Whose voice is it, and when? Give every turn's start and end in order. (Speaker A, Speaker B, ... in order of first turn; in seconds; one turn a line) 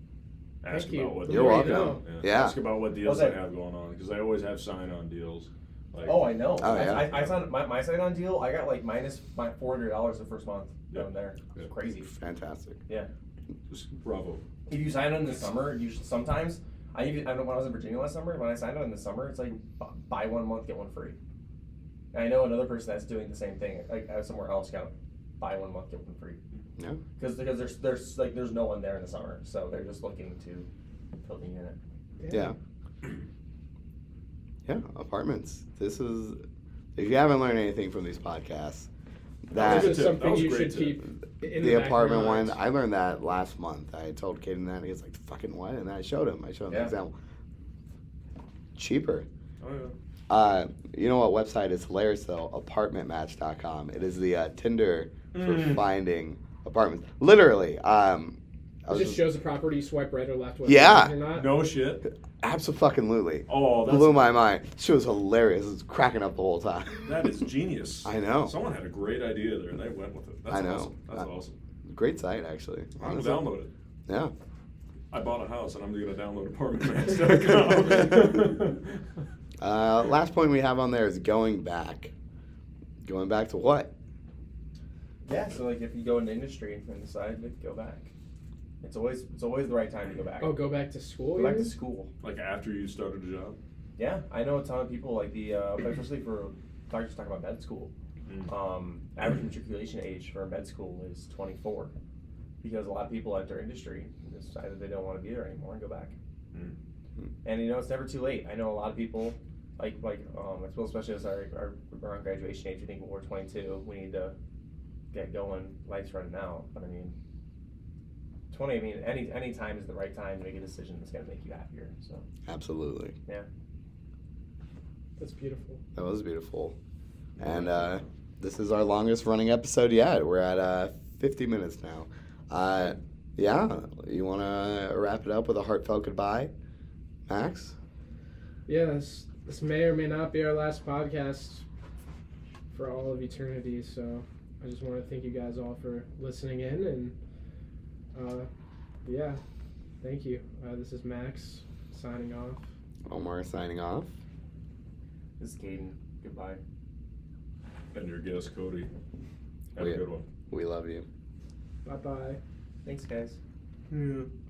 Speaker A: 0.6-7.4
Speaker B: 0.7-2.0
Speaker C: 1.3-2.6
Speaker D: 3.0-3.4
Speaker D: 6.0-12.1
Speaker C: 6.6-7.2
Speaker A: 10.9-11.7
Speaker C: 12.0-12.8
Speaker A: 13.7-14.4
Speaker D: 14.7-21.2
Speaker D: 22.1-26.4
Speaker D: 27.2-30.7
Speaker D: 31.2-31.8
Speaker B: 32.2-32.5
Speaker C: 32.3-32.5
Speaker C: 34.7-36.4
Speaker C: 37.0-38.9
Speaker C: 39.5-40.4
Speaker A: 39.5-41.0
Speaker B: 39.6-42.6
Speaker C: 41.5-47.1
Speaker C: 48.8-49.3
Speaker A: 49.6-49.9
Speaker C: 50.3-59.3
Speaker A: 55.3-55.8
Speaker B: 58.9-61.6
Speaker C: 60.6-61.2
Speaker A: 61.3-62.1
Speaker C: 62.0-67.1
Speaker A: 63.5-64.3
Speaker A: 67.0-71.5
Speaker C: 68.0-68.5
Speaker C: 70.5-71.2
Speaker C: 71.9-73.5
Speaker A: 73.0-73.7
Speaker C: 74.1-74.3
Speaker A: 75.1-79.0
Speaker C: 79.6-82.1
Speaker C: 83.0-83.9
Speaker D: 85.3-88.1
Speaker D: 88.8-90.6
Speaker B: 90.4-91.7
Speaker D: 91.3-92.1
Speaker A: 92.2-93.6
Speaker D: 94.0-97.9
Speaker A: 98.3-98.5
Speaker D: 98.5-101.9
Speaker D: 102.6-106.2
Speaker D: 107.4-114.3
Speaker D: 115.1-117.2
Speaker D: 118.5-122.2
Speaker C: 122.5-123.2
Speaker B: 125.2-125.8
Speaker C: 126.0-126.8
Speaker A: 127.4-128.0
Speaker C: 127.4-136.5
Speaker C: 137.3-137.7
Speaker B: 138.7-141.7
Speaker B: 142.7-147.2
Speaker B: 148.1-148.5
Speaker B: 149.1-149.4
Speaker B: 150.0-152.6
Speaker C: 153.1-154.1
Speaker D: 155.4-156.6
Speaker A: 157.9-158.9
Speaker A: 159.7-160.2
Speaker C: 159.8-161.1
Speaker B: 161.8-162.4
Speaker D: 162.8-163.4
Speaker A: 163.9-164.3